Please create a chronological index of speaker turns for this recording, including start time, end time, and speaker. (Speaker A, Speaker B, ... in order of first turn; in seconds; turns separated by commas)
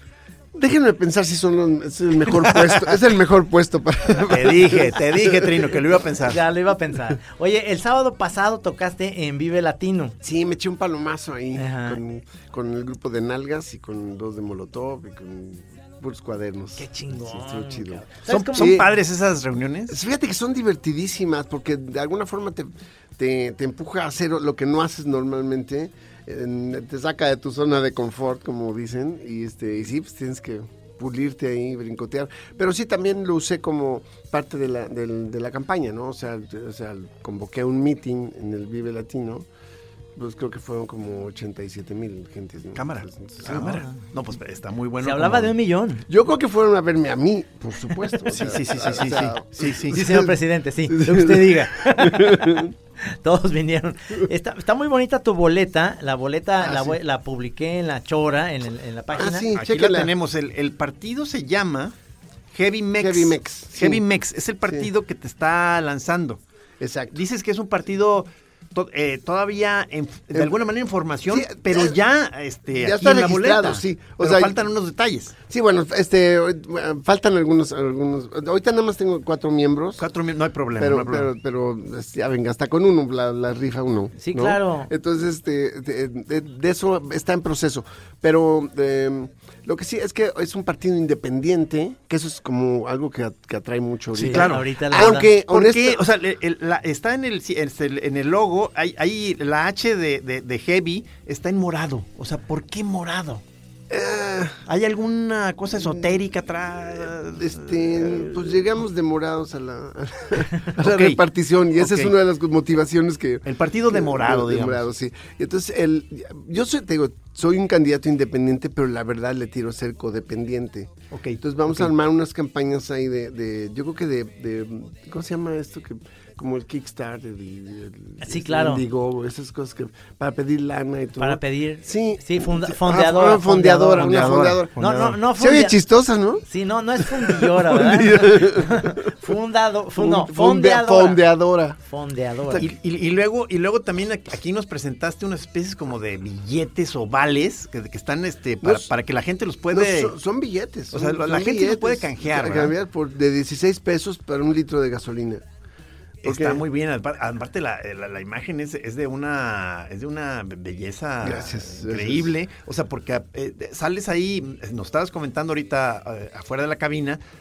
Speaker A: 0.5-6.0, Speaker B: 2.3-3.0, Speaker B: 4.3-6.4, Speaker C: 6.2-10.2, Speaker A: 10.2-18.9, Speaker C: 11.6-12.0, Speaker C: 16.8-18.8, Speaker B: 18.3-20.0, Speaker A: 19.9-39.5, Speaker A: 40.2-43.9, Speaker B: 42.8-45.5, Speaker C: 45.0-46.1, Speaker A: 46.1-50.4, Speaker B: 48.3-50.0, Speaker C: 49.9-59.5, Speaker A: 50.9-52.7, Speaker A: 56.6-57.0, Speaker A: 59.1-60.1, Speaker B: 59.5-62.0, Speaker B: 62.5-66.4, Speaker A: 63.0-64.0, Speaker A: 66.8-67.2, Speaker B: 67.1-75.3, Speaker A: 71.3-72.0, Speaker A: 72.8-74.6, Speaker A: 75.5-80.1, Speaker B: 80.0-81.3, Speaker A: 80.8-96.0, Speaker C: 84.2-84.9, Speaker B: 94.2-103.4, Speaker C: 94.2-95.3, Speaker A: 103.9-104.7, Speaker B: 104.7-108.6, Speaker A: 107.0-136.4, Speaker B: 110.8-111.2, Speaker B: 111.8-112.1, Speaker B: 113.5-114.9, Speaker B: 121.1-121.9, Speaker C: 128.2-128.8, Speaker C: 131.2-134.2, Speaker B: 133.9-135.2, Speaker C: 134.8-135.8, Speaker C: 136.5-141.3, Speaker A: 137.0-139.1, Speaker A: 140.0-141.8, Speaker C: 141.9-142.7, Speaker B: 142.6-150.2, Speaker A: 148.6-148.9, Speaker A: 149.7-155.4, Speaker B: 150.9-152.8, Speaker A: 156.2-156.6, Speaker B: 156.2-167.2, Speaker A: 161.2-162.3